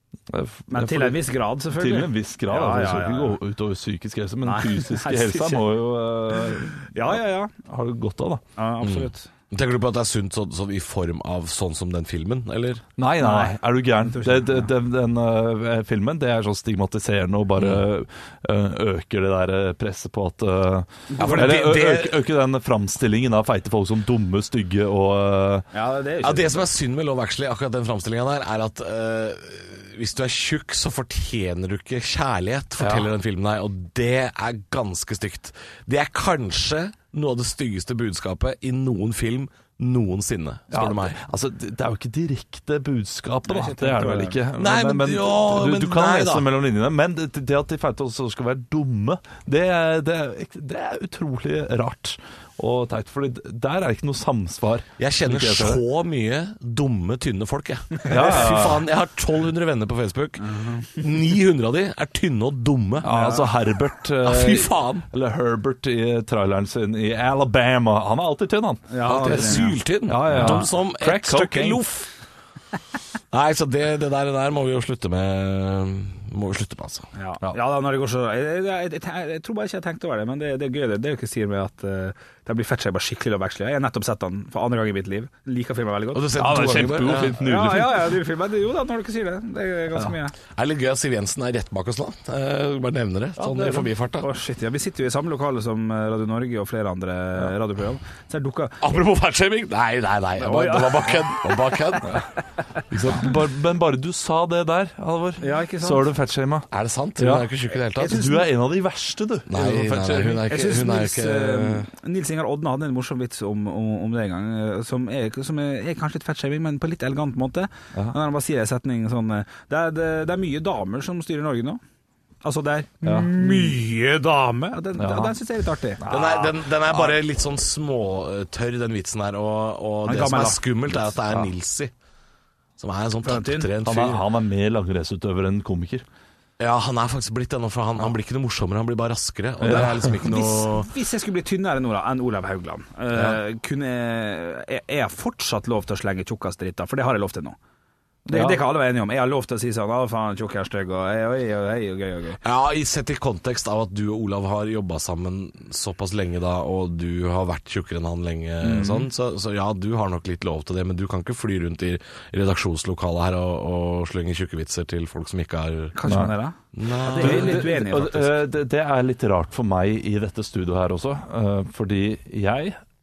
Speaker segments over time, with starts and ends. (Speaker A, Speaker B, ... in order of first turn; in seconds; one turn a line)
Speaker A: 0.3-1.2
Speaker B: 0.7-3.4
Speaker A: 1.7-8.4
Speaker B: 4.4-5.6
Speaker B: 6.8-7.5
Speaker B: 8.6-9.3
Speaker C: 8.8-12.8
Speaker A: 13.0-25.7
Speaker B: 13.2-14.7
Speaker C: 17.6-17.8
Speaker B: 21.1-21.5
Speaker C: 21.2-22.2
Speaker B: 25.7-26.7
Speaker C: 26.2-41.2
Speaker A: 40.7-55.8
Speaker B: 43.5-44.4
Speaker C: 44.6-46.5
Speaker C: 55.0-63.1
Speaker A: 58.0-58.9
Speaker B: 60.4-61.0
Speaker A: 63.0-71.8
Speaker B: 63.0-63.5
Speaker C: 64.2-65.0
Speaker B: 68.9-70.7
Speaker C: 69.0-72.1
Speaker C: 73.3-77.1
Speaker B: 77.1-90.3
Speaker C: 86.1-87.4
Speaker A: 86.3-88.2
Speaker C: 90.5-94.3
Speaker A: 93.4-93.9
Speaker B: 94.2-98.8
Speaker C: 98.8-102.2
Speaker B: 100.4-101.7
Speaker C: 102.9-103.3
Speaker A: 103.0-110.4
Speaker B: 105.4-106.1
Speaker C: 106.7-108.2
Speaker B: 108.0-108.5
Speaker C: 109.5-111.9
Speaker B: 110.4-121.8
Speaker B: 122.4-126.0
Speaker A: 123.0-123.8
Speaker A: 125.0-125.3
Speaker A: 126.0-127.1
Speaker C: 126.1-131.9
Speaker B: 130.0-130.7
Speaker C: 132.8-134.2
Speaker B: 133.2-133.7
Speaker A: 133.8-136.0
Speaker C: 136.6-140.9
Speaker A: 139.6-140.2
Speaker B: 139.7-147.6
Speaker C: 143.1-143.4
Speaker B: 148.3-152.4
Speaker A: 148.3-148.6
Speaker C: 152.4-165.9
Speaker B: 158.6-159.1
Speaker B: 165.9-168.4
Speaker A: 166.1-166.3
Speaker C: 166.7-167.7
Speaker A: 167.2-172.8